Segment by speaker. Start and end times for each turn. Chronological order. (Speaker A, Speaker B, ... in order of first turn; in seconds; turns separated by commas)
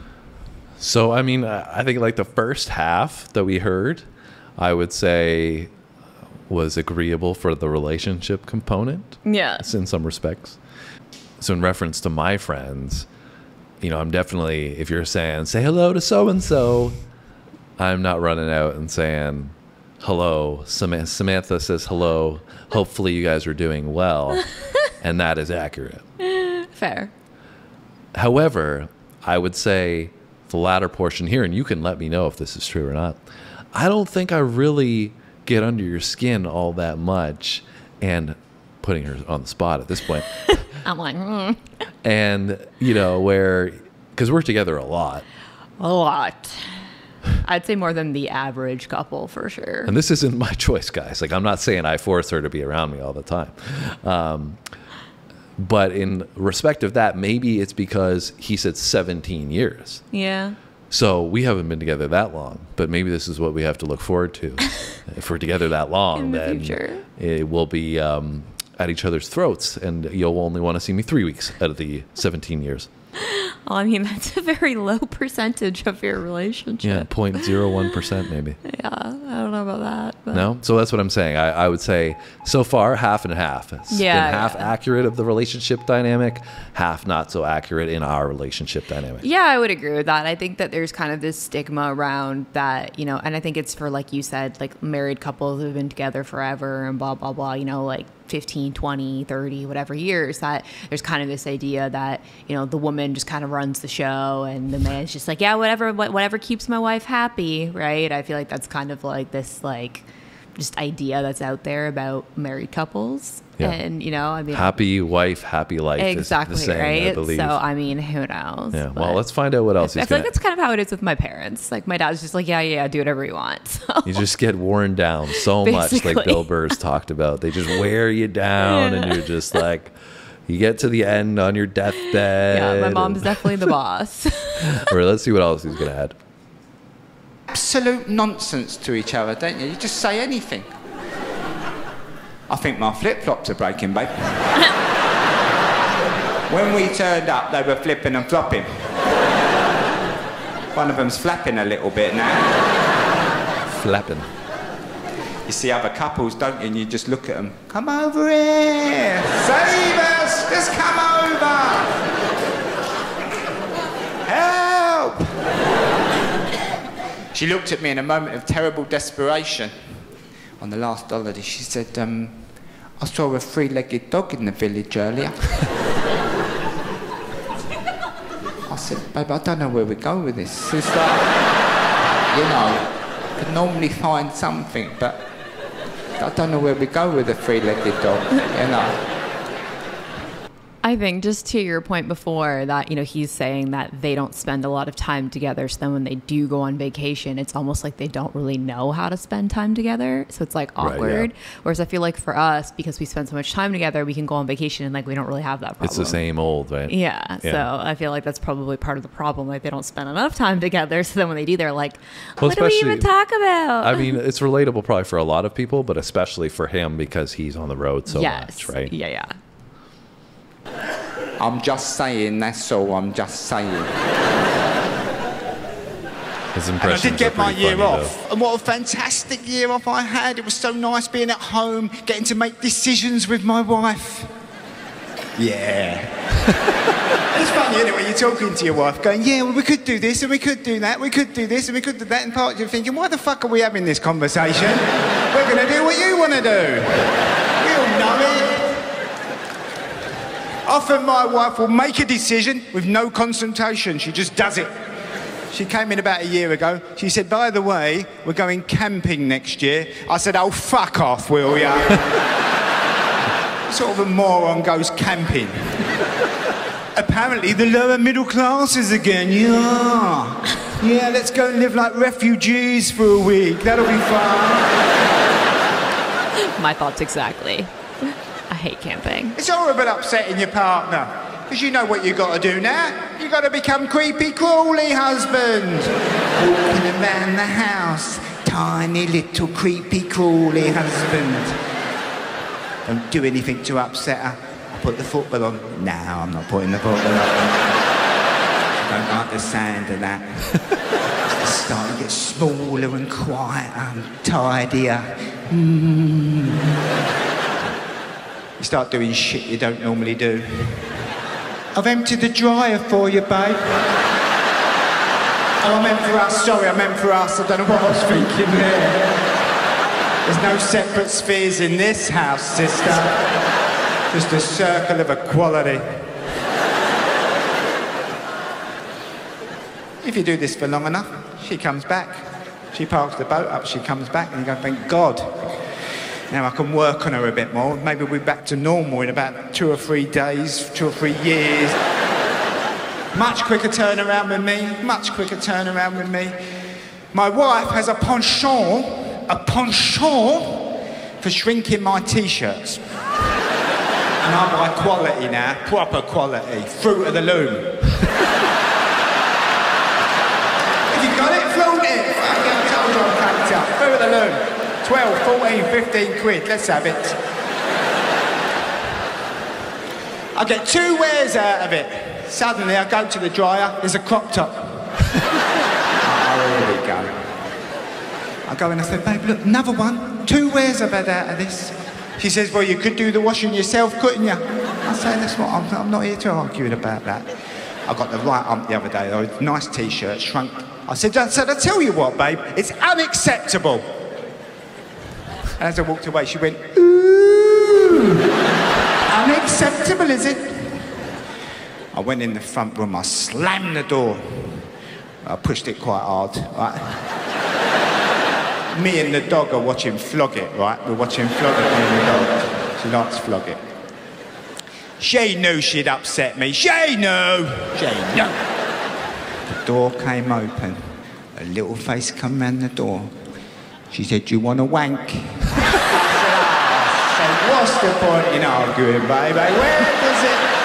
Speaker A: 0.8-4.1, Speaker A: 4.6-5.7, Speaker A: 6.5-10.6, Speaker B: 9.2-9.7, Speaker A: 11.4-13.1, Speaker A: 13.8-17.0, Speaker A: 17.8-26.0, Speaker B: 26.3-27.1, Speaker A: 28.1-33.2, Speaker A: 33.7-40.5, Speaker B: 40.7-41.6, Speaker A: 42.0-45.2, Speaker B: 45.8-46.8, Speaker B: 47.4-49.9, Speaker A: 49.9-54.6, Speaker A: 55.6-60.0, Speaker B: 60.1-60.6, Speaker A: 60.9-72.9, Speaker B: 66.2-67.0, Speaker B: 73.2-77.9, Speaker A: 76.8-78.6, Speaker B: 78.6-80.5, Speaker A: 80.3-89.3, Speaker B: 83.9-84.7, Speaker B: 89.2-114.8, Speaker A: 114.5-117.6, Speaker B: 116.0-124.3, Speaker A: 118.7-120.3, Speaker A: 124.0-129.9, Speaker B: 125.4-126.8, Speaker B: 128.6-129.6, Speaker A: 130.5-133.7, Speaker B: 132.0-134.9, Speaker A: 134.7-136.2, Speaker C: 137.5-140.8, Speaker C: 142.5-144.5, Speaker C: 146.5-148.9, Speaker C: 150.7-152.5, Speaker A: 153.7-154.3, Speaker C: 155.5-162.0, Speaker C: 164.3-165.2, Speaker C: 167.3-170.1, Speaker C: 170.6-175.6, Speaker C: 178.7-181.3, Speaker C: 182.3-185.2, Speaker C: 186.2-189.0, Speaker B: 190.8-214.2, Speaker A: 200.8-201.3, Speaker A: 205.8-207.7, Speaker A: 212.4-213.1, Speaker A: 213.8-218.9, Speaker B: 218.1-219.4, Speaker C: 221.4-223.9, Speaker A: 226.5-228.1, Speaker C: 226.8-234.3, Speaker C: 235.4-236.1, Speaker C: 237.3-248.8, Speaker C: 250.7-254.7, Speaker C: 255.5-262.1, Speaker C: 263.7-265.8, Speaker C: 266.9-274.7, Speaker B: 276.6-279.4, Speaker C: 279.4-291.6, Speaker C: 292.9-297.7, Speaker C: 298.8-300.5, Speaker C: 301.4-306.6, Speaker C: 308.6-311.1, Speaker C: 311.7-313.9, Speaker C: 315.6-319.1, Speaker C: 320.2-323.2, Speaker C: 324.1-326.1, Speaker C: 330.0-335.6, Speaker C: 336.3-341.8, Speaker C: 343.1-346.4, Speaker C: 347.1-352.8, Speaker C: 354.2-357.9, Speaker C: 360.9-367.2, Speaker C: 370.4-374.9, Speaker C: 376.0-377.1, Speaker C: 378.5-387.3, Speaker C: 387.9-393.9, Speaker C: 395.6-398.2, Speaker C: 399.1-401.1, Speaker C: 401.9-404.7, Speaker C: 405.2-407.0, Speaker C: 408.7-413.6, Speaker C: 415.0-418.4, Speaker C: 419.5-423.1, Speaker C: 423.9-430.5